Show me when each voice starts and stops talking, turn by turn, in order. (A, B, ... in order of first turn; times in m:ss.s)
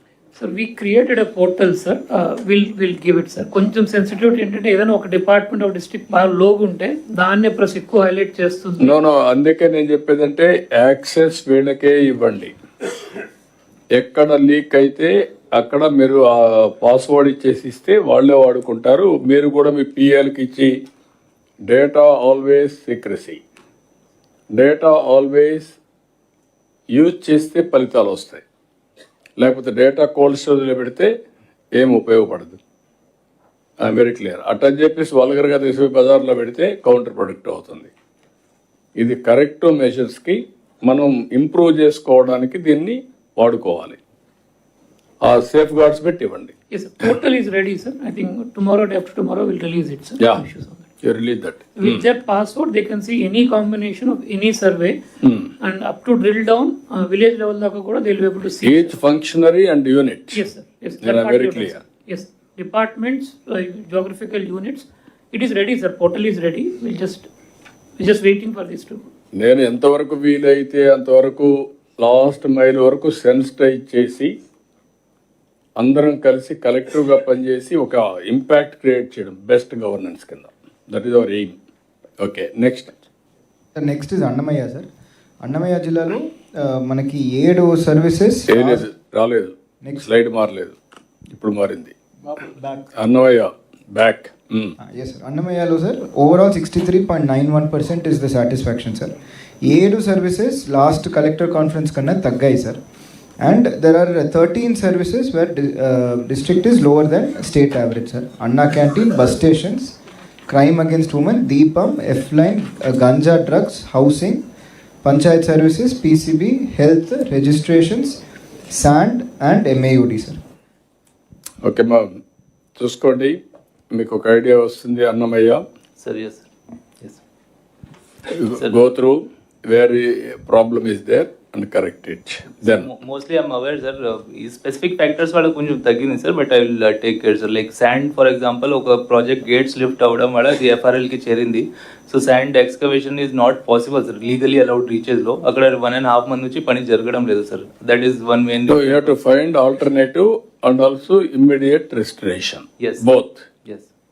0:00.4-0:09.0 A
0:08.8-0:12.6 B
0:14.0-0:20.7 B
0:21.7-0:23.4 B
0:24.6-0:25.8 B
0:27.0-0:28.4 B
0:29.4-0:31.1 B
0:31.8-0:32.6 B
0:33.8-0:37.9 B
0:39.0-0:44.0 B
0:45.2-0:46.5 B
0:46.7-0:50.8 A
0:50.2-0:50.4 B
0:51.0-0:52.1 B
0:51.8-0:55.0 A
0:55.2-0:55.5 B
0:55.6-0:59.0 A
0:58.6-1:00.4 B
1:00.3-1:07.3 A
1:01.0-1:01.8 B
1:08.0-1:09.1 A
1:09.4-1:14.3 B
1:15.8-1:21.6 B
1:22.2-1:23.0 B
1:23.8-1:24.9 C
1:25.4-1:28.9 C
1:28.5-1:30.8 B
1:29.8-1:30.1 C
1:31.3-1:32.0 B
1:32.4-1:32.8 C
1:33.0-1:34.8 B
1:34.8-1:42.8 C
1:43.4-1:54.4 C
1:55.0-1:58.2 C
1:58.7-2:00.4 C
2:01.6-2:02.2 B
2:02.8-2:03.4 B
2:03.9-2:05.6 B
2:06.0-2:06.4 D
2:08.3-2:12.9 B
2:08.6-2:08.8 D
2:12.6-2:29.2 D
2:28.7-2:33.5 B
2:32.8-2:33.1 D